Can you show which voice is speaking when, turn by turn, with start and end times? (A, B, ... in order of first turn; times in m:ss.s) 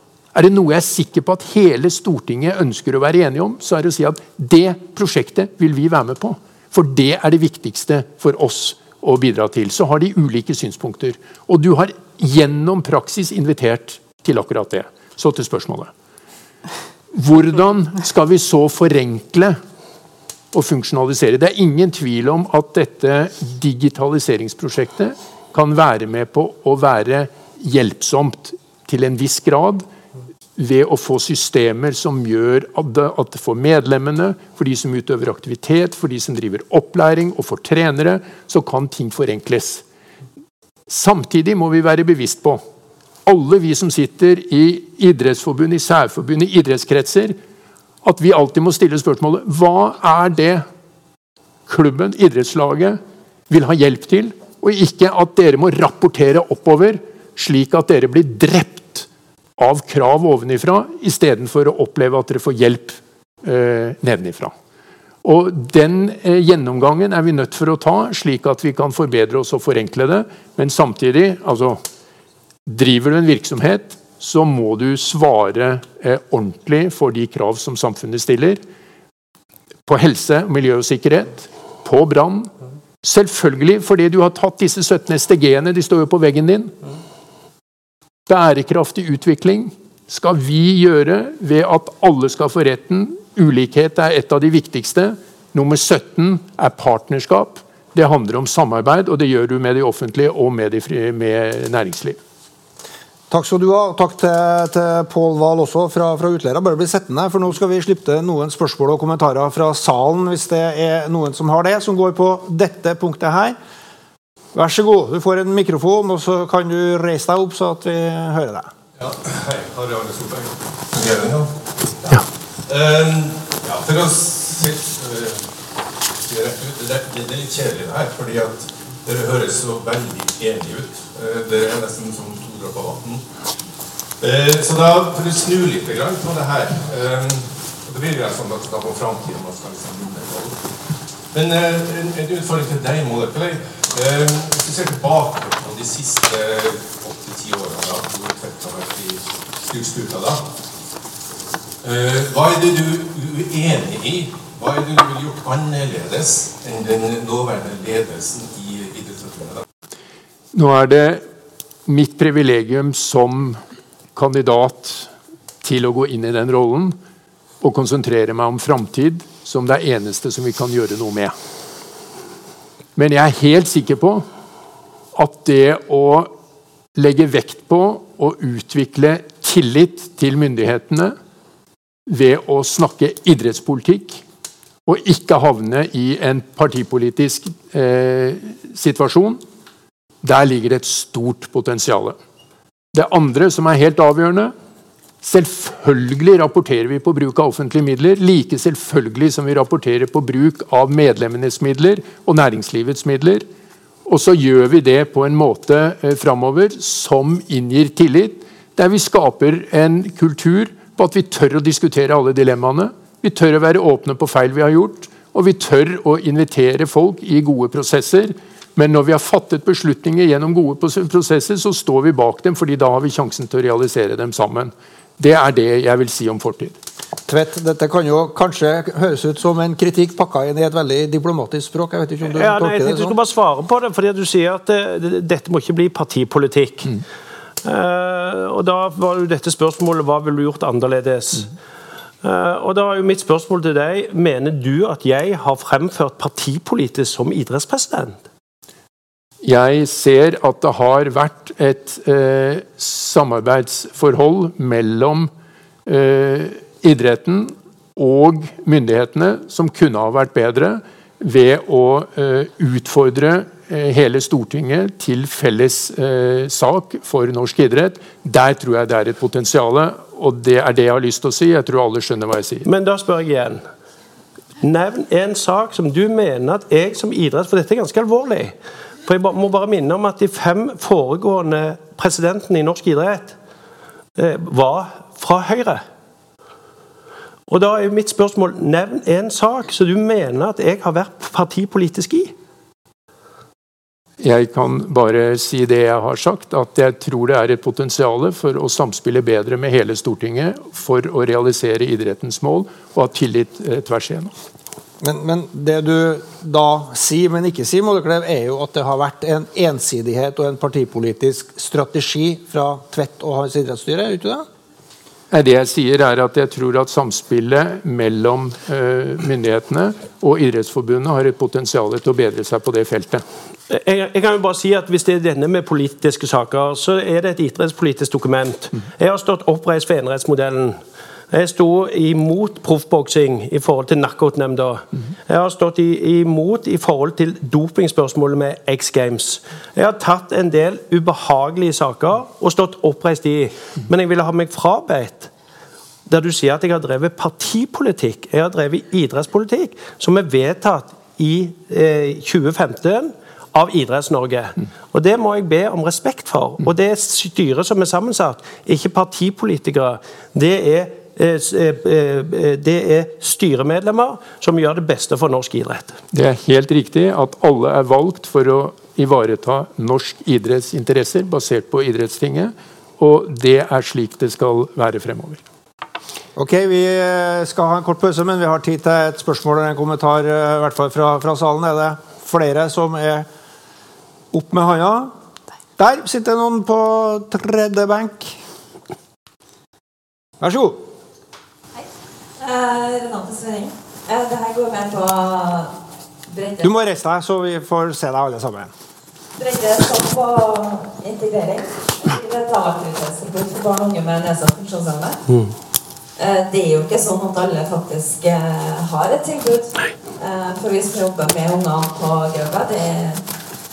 0:00.3-0:15.9 A
0:17.1-0:19.6 A
0:20.5-0:29.8 A
0:30.6-0:39.8 A
0:40.9-0:42.6 A
0:43.3-0:47.4 A
0:48.0-0:50.6 A
0:51.7-0:53.0 A
0:53.5-0:59.1 A
0:59.6-1:04.5 A
1:05.2-1:11.8 A
1:12.7-1:18.6 A
1:19.9-1:22.5 A
1:23.0-1:26.7 A
1:28.3-1:42.2 A
1:43.3-1:53.6 B
1:54.5-1:58.7 B
1:59.0-2:05.5 C
2:06.2-2:13.2 C
2:14.2-2:20.7 C
2:21.3-2:30.4 C
2:31.8-2:39.6 C
2:40.5-2:41.2 A
2:41.9-2:43.6 A
2:44.2-2:45.1 A
2:45.6-2:47.0 A
2:47.6-2:51.4 A
2:53.0-2:54.3 A
2:55.2-2:56.3 A
2:57.0-3:01.2 A
3:02.1-3:04.2 A
3:04.9-3:09.4 A
3:10.2-3:12.2 A
3:12.9-3:14.5 A
3:15.2-3:23.4 A
3:24.1-3:46.8 A
3:47.3-3:53.2 B
3:52.2-3:56.9 D
3:57.6-4:01.5 D
4:02.2-4:08.2 D
4:09.4-4:15.3 A
4:15.9-4:32.7 A
4:32.6-4:33.6 D
4:34.6-4:43.4 D
4:44.2-4:45.8 D
4:47.5-4:52.3 D
4:54.2-5:04.3 A
5:05.0-5:14.4 B
5:15.3-5:23.2 A
5:23.7-5:30.8 D
5:31.3-5:45.3 D
5:46.1-6:06.0 D
6:06.1-6:15.4 A
6:16.4-6:23.3 B
6:24.3-6:25.1 B
6:25.8-6:28.4 B
6:30.4-6:30.8 B
6:32.4-6:35.7 E
6:36.3-6:36.7 E
6:36.6-6:38.7 B
6:39.4-6:45.2 E
6:46.2-6:53.2 E